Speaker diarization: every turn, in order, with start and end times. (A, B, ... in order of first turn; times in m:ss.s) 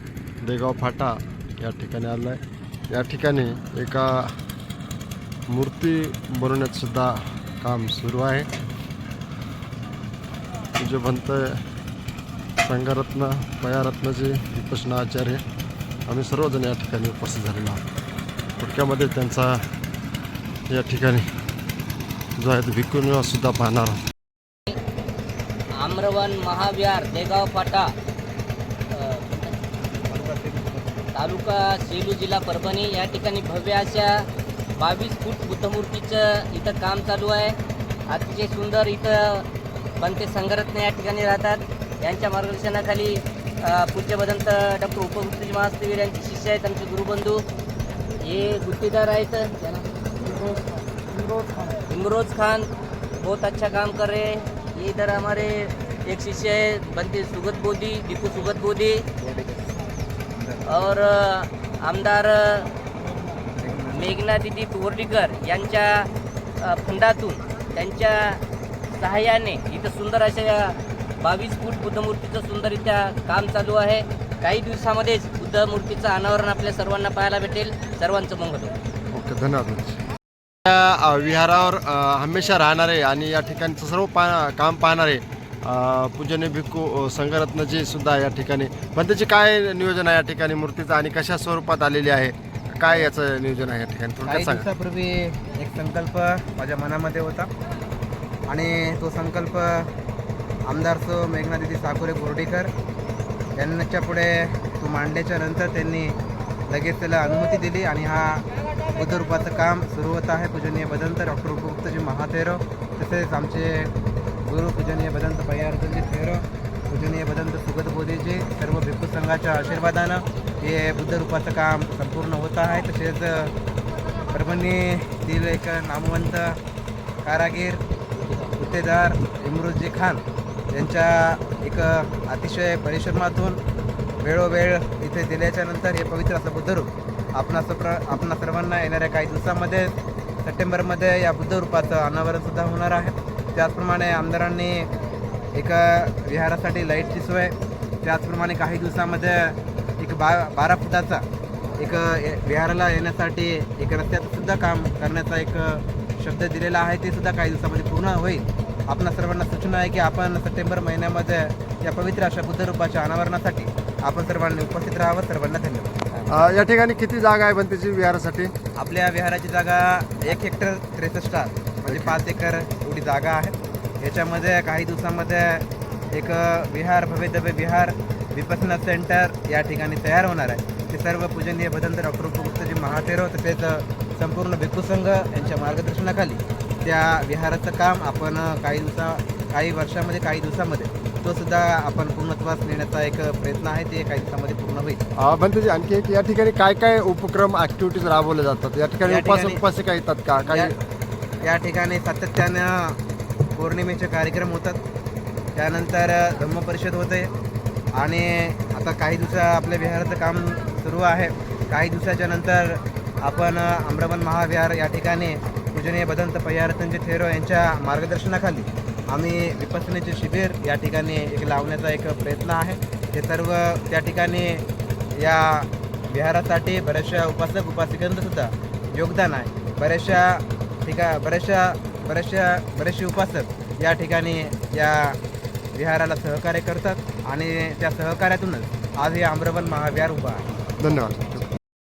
0:00.4-0:04.3 A
0:05.5-0:08.5 A
0:10.8-0:11.6 A
0:12.6-0:15.4 A
0:16.1-0:17.8 A
0:18.6-0:19.7 A
0:20.7-0:21.2 A
0:22.4-0:24.0 A
0:25.8-0:27.9 B
0:28.9-0:29.6 B
0:30.0-0:31.0 C
0:31.1-0:34.2 B
0:34.8-0:37.6 B
0:38.1-0:39.4 B
0:40.0-0:47.4 B
0:48.2-0:50.6 B
0:51.2-0:59.0 B
0:59.2-1:00.8 C
1:00.6-1:02.7 B
1:03.5-1:04.2 C
1:03.9-1:06.1 B
1:06.6-1:08.4 B
1:09.0-1:18.7 B
1:19.1-1:20.0 A
1:20.6-1:34.7 A
1:34.2-1:37.5 C
1:38.5-1:39.9 C
1:40.7-1:42.7 C
1:43.6-1:46.2 C
1:46.7-1:53.9 C
1:54.4-2:03.5 C
2:04.3-2:06.6 C
2:07.2-2:07.8 C
2:08.5-2:13.6 C
2:14.2-2:24.9 C
2:25.5-2:31.2 C
2:31.8-2:46.3 C
2:46.3-2:48.5 A
2:48.8-3:15.0 C
2:51.8-2:52.2 A
3:15.2-3:20.7 A
3:19.0-3:19.6 C
3:20.4-3:20.7 C
3:21.4-3:23.0 C
3:23.5-3:24.8 C
3:25.5-3:27.3 C
3:28.0-3:44.6 C
3:45.2-3:55.2 C
3:55.7-4:00.4 C
4:00.8-4:01.5 A